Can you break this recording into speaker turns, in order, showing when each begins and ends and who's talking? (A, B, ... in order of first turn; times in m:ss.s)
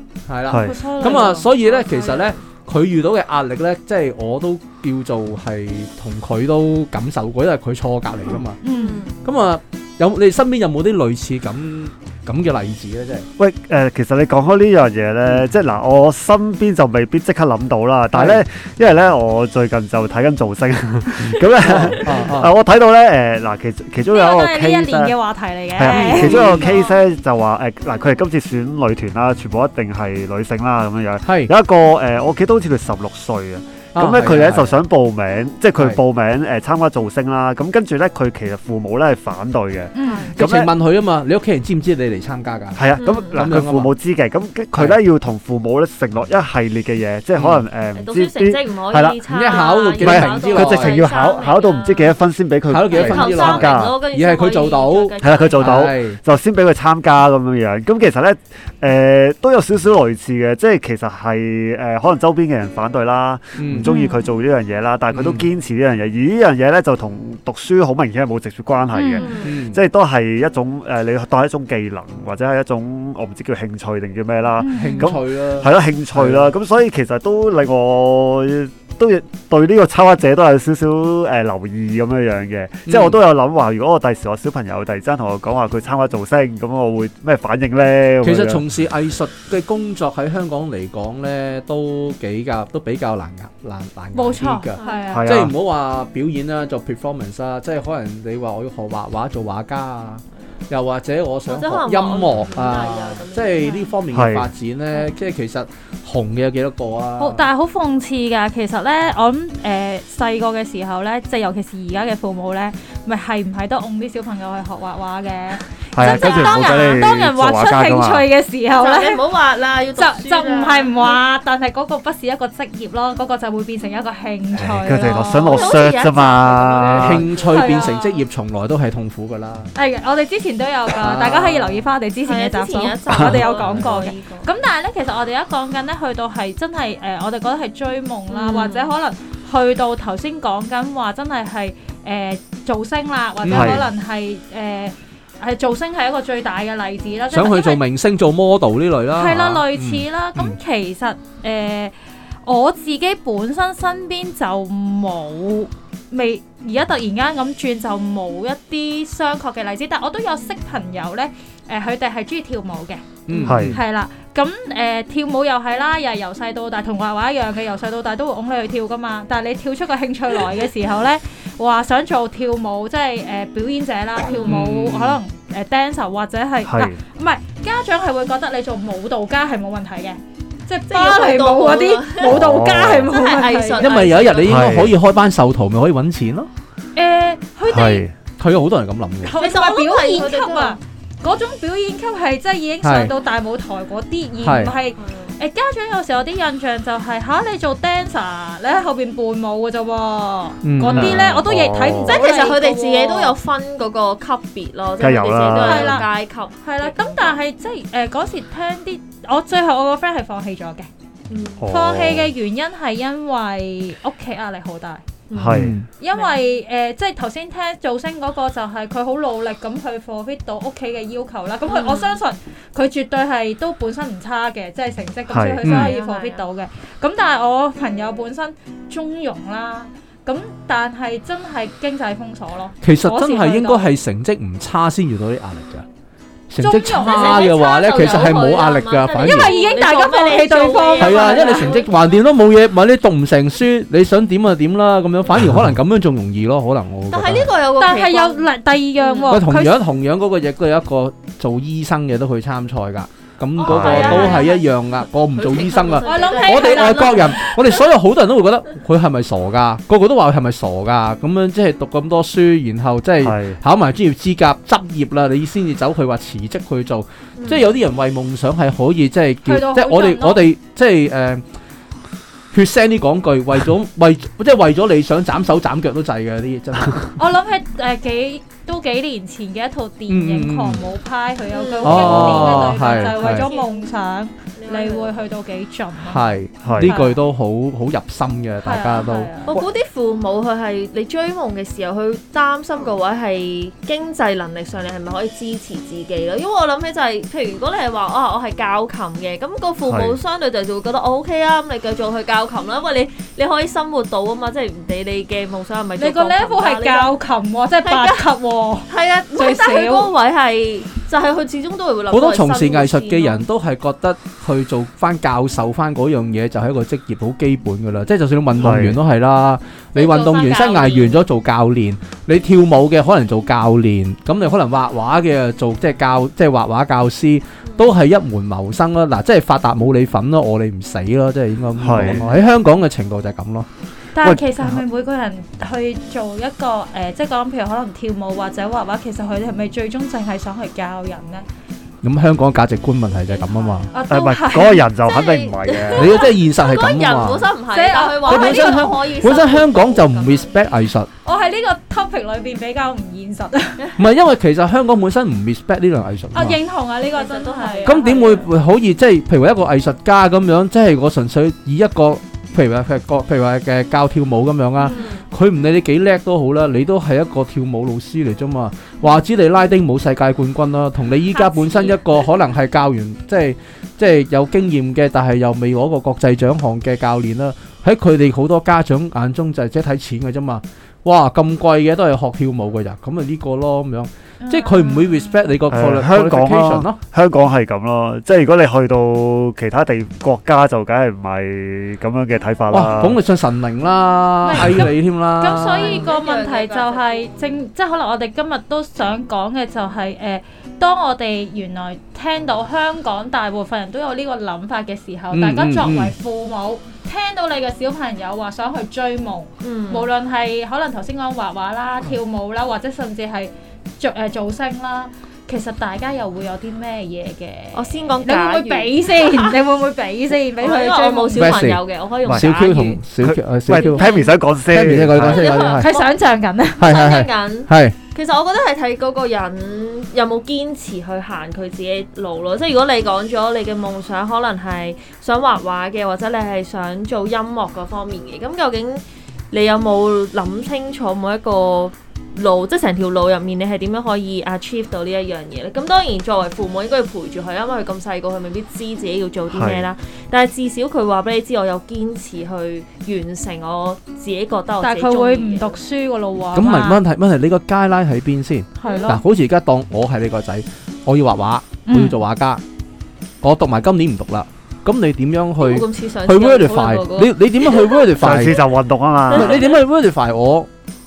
0:00.3-0:08.6 A
0:00.5-0:00.8 B
0:00.5-0:01.5 C
0:01.0-0:02.4 D
0:08.6-0:09.0 C
0:08.6-0:09.2 D
0:09.2-0:13.3 A
0:13.4-0:25.2 B
0:18.1-0:18.4 A
0:21.6-0:22.5 A
0:24.1-0:26.8 C
0:25.7-0:40.7 B
0:25.9-0:26.7 A
0:31.2-0:31.5 A
0:34.0-0:34.8 A
0:40.0-0:40.4 C
0:40.0-0:40.3 D
0:40.4-0:43.9 A
0:42.8-0:49.2 B
0:43.0-0:43.6 D
0:47.4-0:47.6 A
0:48.0-0:52.2 D
0:49.3-0:51.0 A
0:50.0-0:54.0 B
0:52.7-0:56.2 A
0:52.9-0:55.9 D
0:55.2-1:28.6 B
1:03.6-1:03.9 A
1:03.9-1:04.2 C
1:05.1-1:05.5 A
1:08.9-1:09.2 C
1:09.1-1:09.6 D
1:09.4-1:09.8 A
1:14.6-1:15.1 C
1:14.8-1:16.5 A
1:22.9-1:23.2 A
1:28.2-1:47.5 A
1:34.1-1:35.3 C
1:34.8-1:35.2 D
1:35.1-1:35.6 B
1:41.5-1:43.8 D
1:43.6-1:43.9 C
1:44.1-1:44.5 B
1:47.2-1:59.4 C
1:55.9-1:58.3 B
1:58.7-2:01.2 D
2:00.0-2:05.9 C
2:04.5-2:07.3 B
2:05.1-2:07.9 D
2:06.9-2:09.7 A
2:07.5-2:08.2 C
2:09.8-2:27.8 C
2:11.0-2:11.9 A
2:12.2-2:14.5 D
2:13.6-2:13.8 A
2:18.3-2:18.9 D
2:23.4-2:23.9 A
2:23.5-2:23.9 B
2:27.3-2:30.6 A
2:29.1-3:04.0 C
2:43.3-2:43.8 A
2:43.5-2:43.8 B
2:54.2-2:54.6 D
2:54.5-2:55.2 A
2:56.6-2:57.0 B
3:00.9-3:02.4 D
3:02.2-3:03.1 B
3:03.1-3:04.8 D
3:03.8-3:06.5 A
3:04.4-3:05.0 B
3:07.0-3:08.0 C
3:07.7-3:08.1 B
3:08.4-3:09.4 A
3:09.2-3:23.4 C
3:09.4-3:10.8 D
3:12.8-3:13.1 A
3:14.4-3:14.7 A
3:15.0-3:15.4 D
3:20.6-3:21.2 A
3:20.9-3:22.2 B
3:22.1-3:27.4 D
3:25.0-3:26.0 B
3:25.5-3:26.1 C
3:26.6-3:30.9 C
3:31.3-3:31.6 D
3:31.6-3:32.3 B
3:31.7-3:35.0 C
3:35.3-3:36.4 D
3:35.4-3:35.7 B
3:35.5-3:35.9 A
3:36.0-3:53.9 C
3:41.7-3:42.2 D
3:45.3-3:45.6 B
3:45.6-3:45.9 A
3:45.7-3:46.4 D
3:52.8-3:55.8 A
3:56.5-3:59.5 A
3:56.6-3:57.6 C
3:57.0-4:02.1 D
3:59.2-4:01.8 C
4:01.0-4:07.5 A
4:07.1-4:08.5 D
4:07.8-4:09.8 C
4:09.0-4:09.3 D
4:09.3-4:31.4 A
4:13.6-4:14.6 D
4:13.6-4:14.4 B
4:13.9-4:14.5 C
4:15.3-4:17.6 D
4:16.0-4:17.5 C
4:23.2-4:23.6 B
4:27.4-4:27.7 D
4:29.4-4:30.5 C
4:32.5-4:37.2 A
4:37.2-4:47.2 C
4:40.1-4:40.8 A
4:41.5-4:44.0 D
4:41.8-4:43.4 A
4:42.0-4:42.6 B
4:44.6-4:45.3 D
4:46.1-4:49.3 A
4:46.6-4:46.9 B
4:48.6-4:49.5 C
4:49.5-5:07.1 D
4:59.9-5:00.2 B
5:06.0-5:10.1 C
5:07.8-5:08.3 D
5:08.9-5:13.4 D
5:12.1-5:33.7 A
5:18.6-5:19.0 B
5:20.0-5:21.2 D
5:31.8-5:32.3 B
5:34.2-5:41.5 C
5:34.2-5:34.8 B
5:42.0-5:43.9 A
5:43.1-5:44.2 D
5:43.9-5:44.9 C
5:44.1-5:46.2 B
5:45.0-5:50.7 D
5:45.9-5:47.5 A
5:47.7-5:48.9 C
5:48.2-5:51.1 A
5:51.2-5:53.9 C
5:54.0-5:56.6 A
5:56.3-5:58.5 C
5:57.1-5:58.4 D
5:57.8-6:27.0 A
6:04.8-6:05.2 D
6:11.3-6:12.0 D
6:24.4-6:25.4 C
6:25.7-6:33.2 B
6:32.7-6:36.0 A
6:34.5-7:01.6 C
6:35.8-6:37.5 D
6:45.3-6:46.1 A
6:49.6-6:50.1 D
6:57.7-6:59.6 D
7:00.6-7:03.0 D
7:01.4-7:04.1 A
7:03.2-7:05.6 B
7:03.7-7:04.4 D
7:04.7-7:05.9 A
7:05.1-7:06.2 D
7:05.7-7:06.9 C
7:06.8-7:08.0 A
7:06.8-7:35.8 D
7:29.5-7:29.9 B
7:34.8-7:37.0 C
7:36.5-7:42.6 A
7:38.8-7:39.2 C
7:38.8-7:39.2 D
7:41.9-7:42.2 C
7:43.4-7:48.6 A
7:45.6-7:48.0 D
7:48.2-7:49.7 B
7:49.3-7:49.8 D
7:49.3-7:50.7 A